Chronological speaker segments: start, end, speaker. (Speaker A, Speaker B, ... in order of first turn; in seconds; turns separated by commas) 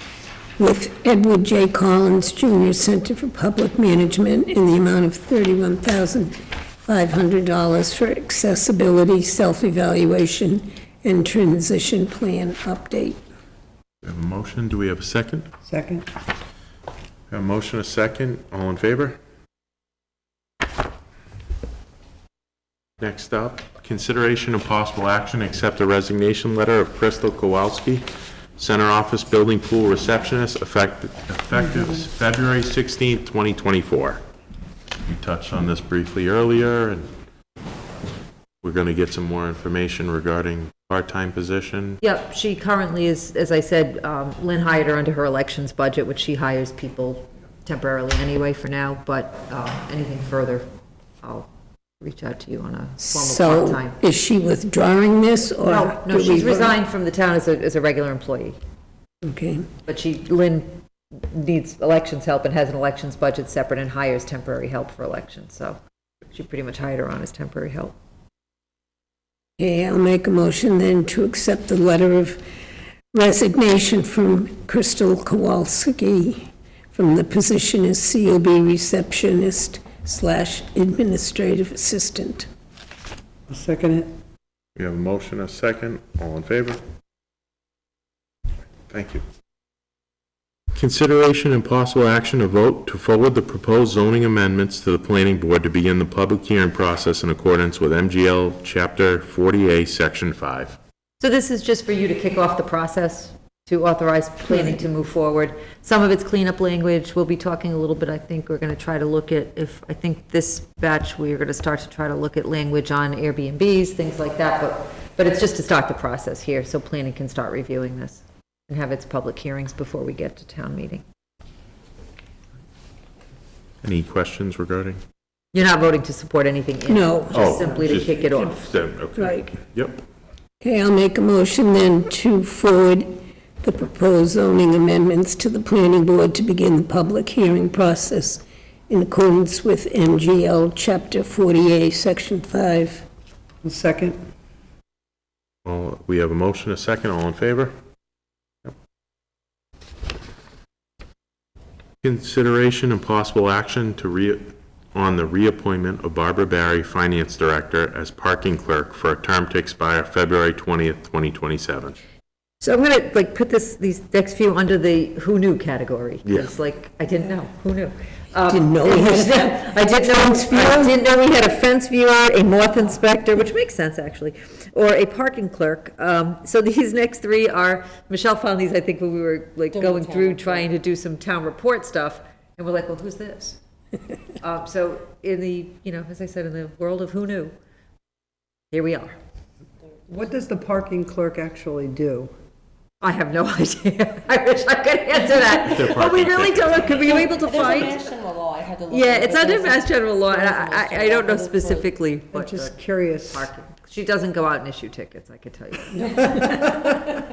Speaker A: 0.6-13.2, Speaker B: 14.0-15.5, Speaker C: 15.6-16.1, Speaker B: 17.3-19.2, Speaker B: 23.0-28.1, Speaker B: 28.6-34.2, Speaker B: 35.0-37.1, Speaker B: 38.6-42.0, Speaker D: 42.0-50.6, Speaker D: 51.2-51.5, Speaker D: 52.0-54.0, Speaker A: 53.0-56.8, Speaker D: 55.6-58.6, Speaker A: 59.2-59.6, Speaker D: 59.9-60.8, Speaker D: 61.3-65.8, Speaker D: 66.3-67.9, Speaker A: 69.6-72.4, Speaker A: 73.1-82.5, Speaker C: 83.5-84.1, Speaker B: 84.8-86.8, Speaker B: 88.9-89.2, Speaker B: 90.7-100.8, Speaker D: 101.2-121.0, Speaker B: 123.8-125.0, Speaker D: 125.5-128.8, Speaker A: 126.9-128.5, Speaker B: 127.3-130.0, Speaker A: 129.2-129.5, Speaker A: 130.6-143.0, Speaker C: 143.6-144.2, Speaker B: 145.6-147.7, Speaker B: 152.0-161.9, Speaker D: 162.6-183.6, Speaker B: 166.2-166.5, Speaker A: 168.4-171.0, Speaker E: 179.7-180.7, Speaker D: 184.4-187.5, Speaker D: 188.7-189.2, Speaker C: 190.1-192.3, Speaker D: 193.0-198.1, Speaker B: 195.7-196.7, Speaker E: 196.9-201.9, Speaker D: 198.9-206.9, Speaker C: 202.3-203.5